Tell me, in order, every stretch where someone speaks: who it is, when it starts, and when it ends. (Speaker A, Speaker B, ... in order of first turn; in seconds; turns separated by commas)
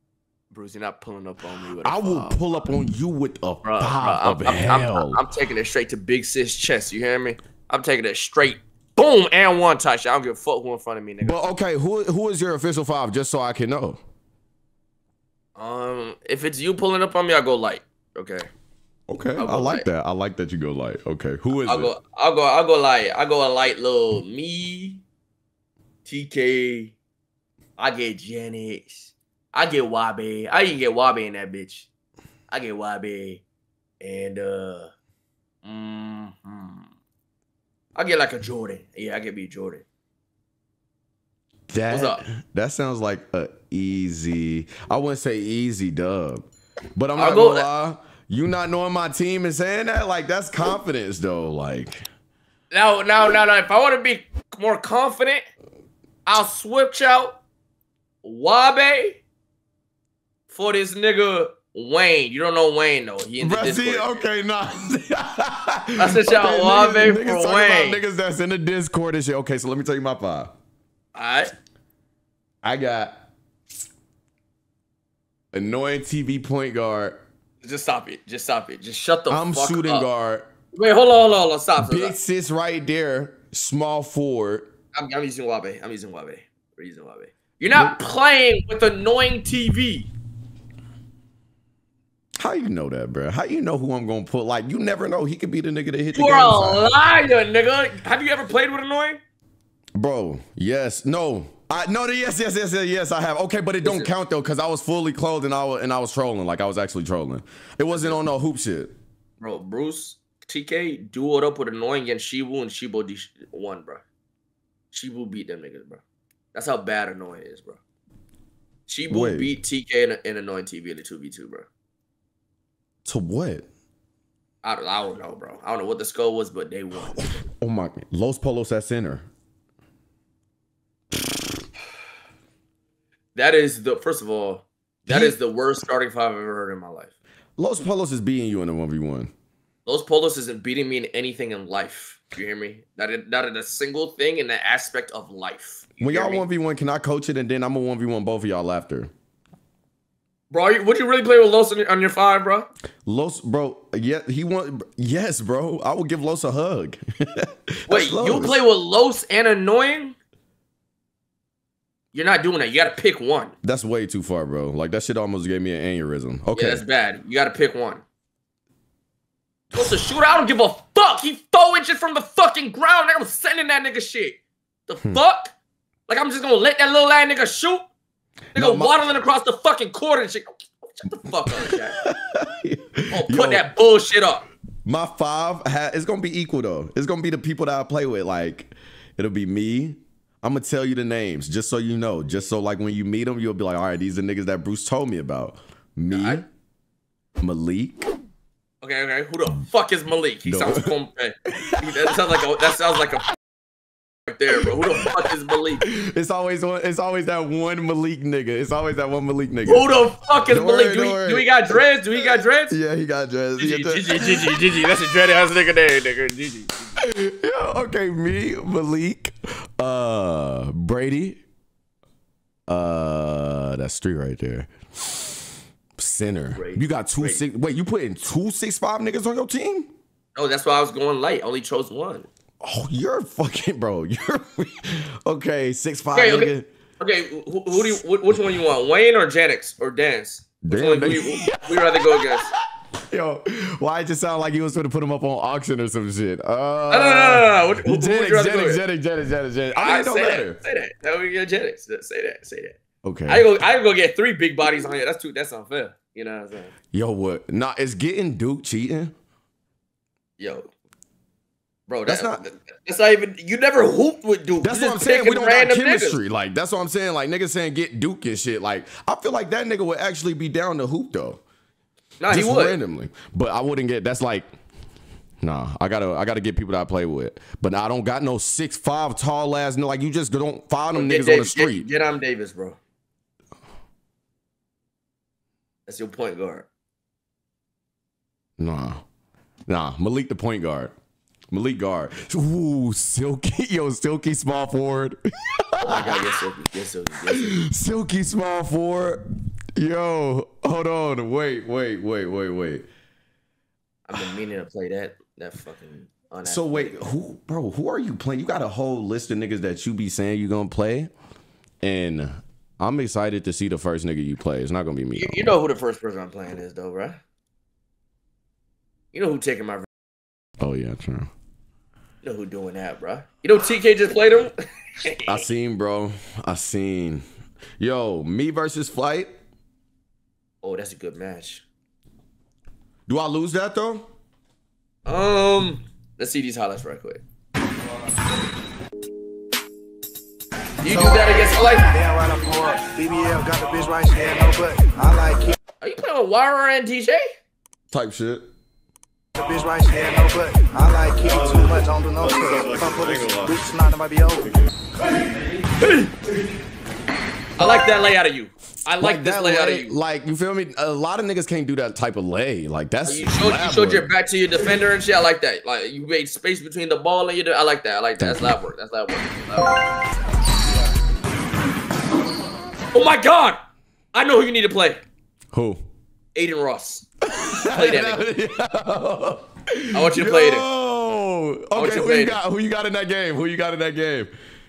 Speaker A: 0.5-2.7, Speaker B: 1.8-5.2, Speaker A: 3.6-11.4, Speaker B: 11.2-14.0, Speaker A: 15.6-18.5, Speaker B: 19.1-21.9, Speaker A: 19.4-19.9, Speaker A: 21.6-25.0, Speaker A: 26.1-26.9, Speaker A: 27.8-31.9, Speaker A: 32.5-33.4, Speaker A: 34.0-34.9, Speaker A: 35.6-36.9, Speaker A: 37.9-39.8, Speaker B: 41.7-52.0, Speaker A: 41.9-42.2, Speaker A: 47.1-47.7, Speaker A: 52.7-55.4, Speaker A: 56.2-57.4, Speaker A: 58.2-59.2, Speaker A: 60.5-64.2, Speaker B: 63.4-70.5, Speaker A: 66.0-68.0, Speaker A: 71.1-71.5, Speaker B: 72.6-73.2, Speaker B: 75.5-77.2, Speaker A: 77.6-80.0, Speaker B: 79.3-80.5, Speaker A: 80.7-82.2, Speaker B: 81.8-84.7, Speaker A: 84.9-90.1, Speaker B: 92.4-96.9, Speaker A: 96.1-99.2, Speaker B: 100.0-108.9, Speaker A: 103.8-104.1, Speaker A: 107.9-108.2, Speaker A: 109.4-114.0, Speaker A: 114.9-116.0, Speaker A: 116.5-117.8, Speaker A: 118.9-121.7, Speaker B: 119.1-119.5, Speaker B: 123.0-123.7, Speaker A: 124.6-127.4, Speaker B: 127.5-129.3, Speaker A: 133.3-137.1, Speaker B: 135.1-135.4, Speaker B: 137.6-139.3, Speaker A: 139.9-146.4, Speaker B: 146.0-149.1, Speaker A: 150.5-152.7, Speaker B: 153.1-158.6, Speaker A: 157.9-160.2, Speaker A: 162.1-163.5, Speaker B: 163.6-166.8, Speaker A: 166.5-168.0, Speaker A: 169.7-175.5, Speaker A: 176.1-177.9, Speaker B: 178.5-179.0, Speaker A: 178.5-182.1, Speaker B: 181.7-183.7, Speaker A: 183.1-184.4, Speaker B: 184.9-196.4, Speaker A: 196.1-196.4, Speaker B: 197.4-198.1, Speaker A: 198.8-203.2, Speaker B: 200.4-200.9, Speaker B: 201.5-202.2, Speaker A: 204.3-205.9, Speaker B: 204.8-205.1, Speaker B: 205.8-209.9, Speaker A: 209.7-212.8, Speaker B: 210.5-211.8, Speaker B: 212.7-214.7, Speaker A: 213.6-217.0, Speaker B: 217.0-221.4, Speaker B: 222.7-225.3, Speaker B: 226.0-229.9, Speaker A: 226.5-227.4, Speaker A: 230.3-232.3, Speaker B: 232.6-236.7, Speaker A: 236.1-242.5, Speaker B: 240.6-242.5, Speaker B: 243.1-250.6, Speaker A: 246.9-248.8, Speaker A: 249.8-256.7, Speaker B: 253.0-253.4, Speaker B: 256.9-259.1, Speaker A: 260.4-260.7, Speaker A: 261.9-266.2, Speaker B: 262.1-262.4, Speaker B: 264.6-271.4, Speaker A: 272.2-272.8, Speaker B: 272.3-274.5, Speaker B: 275.4-281.9, Speaker A: 280.9-282.8, Speaker A: 285.9-286.7, Speaker B: 288.6-289.0, Speaker B: 289.7-290.9, Speaker B: 291.5-296.4, Speaker A: 295.8-297.6, Speaker B: 297.3-299.2, Speaker B: 299.7-302.9, Speaker A: 304.1-307.1, Speaker B: 306.4-311.1, Speaker B: 311.8-315.5, Speaker A: 315.1-317.2, Speaker A: 319.1-319.9, Speaker B: 320.6-321.3, Speaker A: 322.2-324.5, Speaker A: 325.0-325.4, Speaker B: 325.2-327.2, Speaker B: 327.8-329.3, Speaker A: 330.6-331.6, Speaker B: 333.1-334.1, Speaker A: 335.1-337.2, Speaker A: 340.8-341.9, Speaker C: 340.8-345.6, Speaker A: 345.8-347.3, Speaker B: 347.9-348.5, Speaker C: 349.3-354.6, Speaker A: 355.8-356.1, Speaker A: 357.6-360.0, Speaker B: 359.0-364.1, Speaker A: 363.1-369.8, Speaker B: 368.2-368.6, Speaker A: 372.9-373.6, Speaker A: 374.1-375.0, Speaker B: 375.5-375.8, Speaker A: 376.3-377.1, Speaker B: 377.3-384.3, Speaker A: 377.7-378.3, Speaker A: 379.9-380.6, Speaker A: 381.8-382.4